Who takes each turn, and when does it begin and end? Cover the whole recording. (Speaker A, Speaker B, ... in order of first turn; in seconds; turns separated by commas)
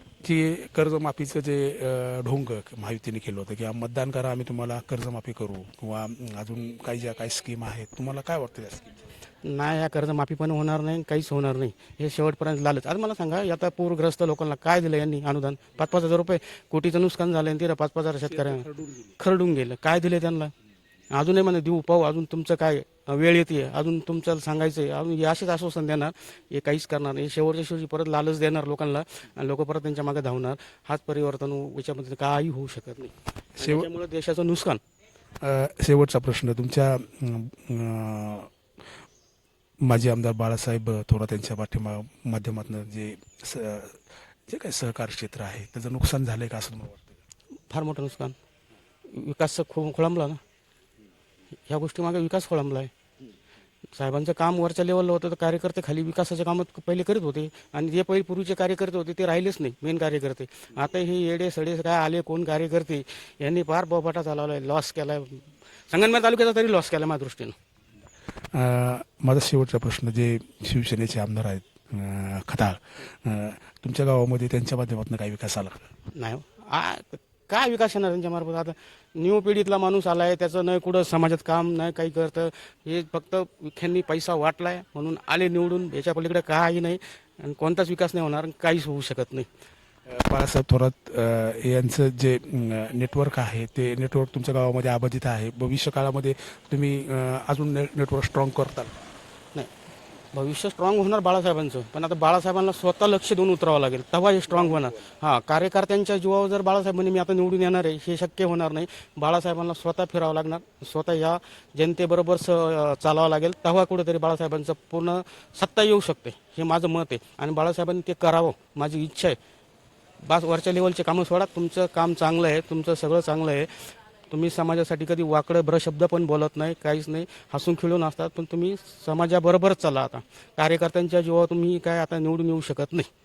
Speaker A: 0.2-9.0, Speaker B: 9.4-18.7, Speaker A: 18.4-19.1, Speaker B: 19.2-20.5, Speaker B: 21.1-34.8, Speaker A: 33.6-33.9, Speaker A: 35.4-38.5, Speaker A: 39.8-47.2, Speaker B: 47.7-48.4, Speaker B: 49.1-50.4, Speaker B: 51.7-52.9, Speaker B: 54.0-67.6, Speaker A: 68.5-75.9, Speaker B: 76.1-89.5, Speaker A: 90.1-99.0, Speaker B: 100.3-119.4, Speaker B: 120.2-133.1